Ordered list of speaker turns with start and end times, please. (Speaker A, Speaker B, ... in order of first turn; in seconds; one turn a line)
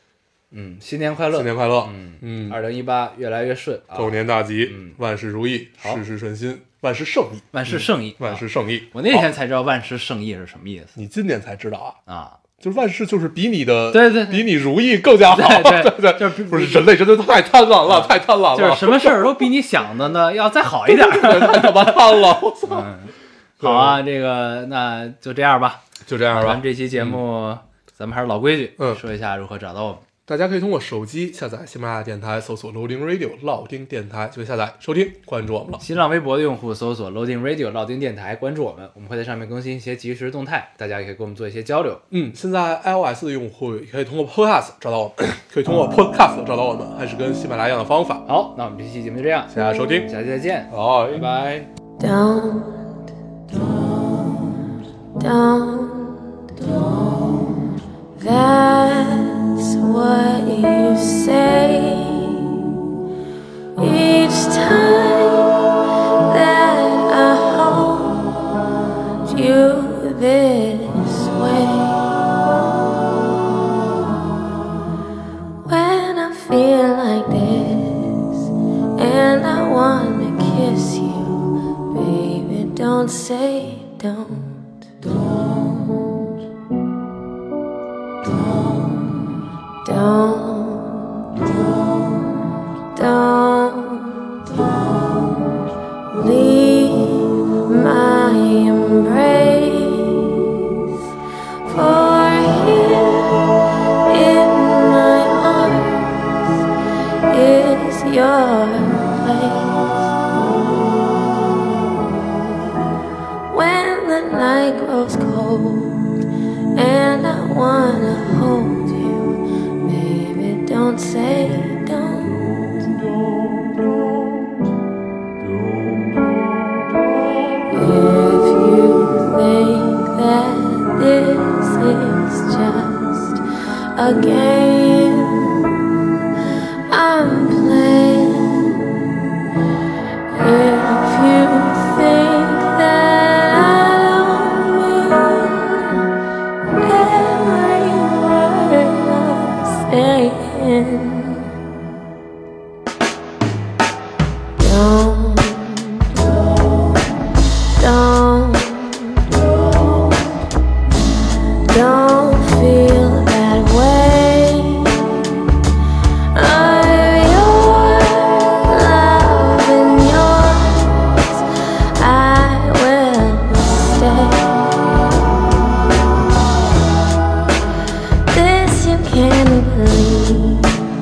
Speaker A: 0.5-5.0
Speaker B: 1.3-2.6
Speaker B: 3.9-9.2
Speaker A: 7.5-10.9
Speaker B: 10.9-12.0
Speaker A: 12.1-12.4
Speaker B: 12.6-19.4
Speaker A: 13.9-14.5
Speaker A: 15.2-16.9
Speaker A: 17.9-30.0
Speaker B: 20.9-22.9
Speaker B: 23.6-24.0
Speaker B: 26.1-27.2
Speaker B: 30.3-35.8
Speaker A: 35.8-42.0
Speaker B: 42.1-48.2
Speaker A: 48.3-51.7
Speaker B: 49.5-50.1
Speaker B: 50.7-51.2
Speaker C: 52.0-54.1
Speaker C: 55.2-57.5
Speaker C: 58.1-62.7
Speaker C: 63.8-68.5
Speaker C: 69.2-72.2
Speaker C: 75.6-86.3
Speaker C: 88.2-89.2
Speaker C: 89.8-92.3
Speaker C: 92.9-95.4
Speaker C: 96.1-100.8
Speaker C: 101.6-106.5
Speaker C: 107.3-110.8
Speaker C: 113.5-116.1
Speaker C: 116.7-123.1
Speaker C: 127.7-133.4
Speaker C: 133.9-135.9
Speaker C: 136.9-139.2
Speaker C: 140.3-146.1
Speaker C: 146.8-151.5
Speaker C: 154.6-156.8
Speaker C: 157.7-160.4
Speaker C: 161.7-165.5
Speaker C: 166.3-174.8
Speaker C: 178.3-180.8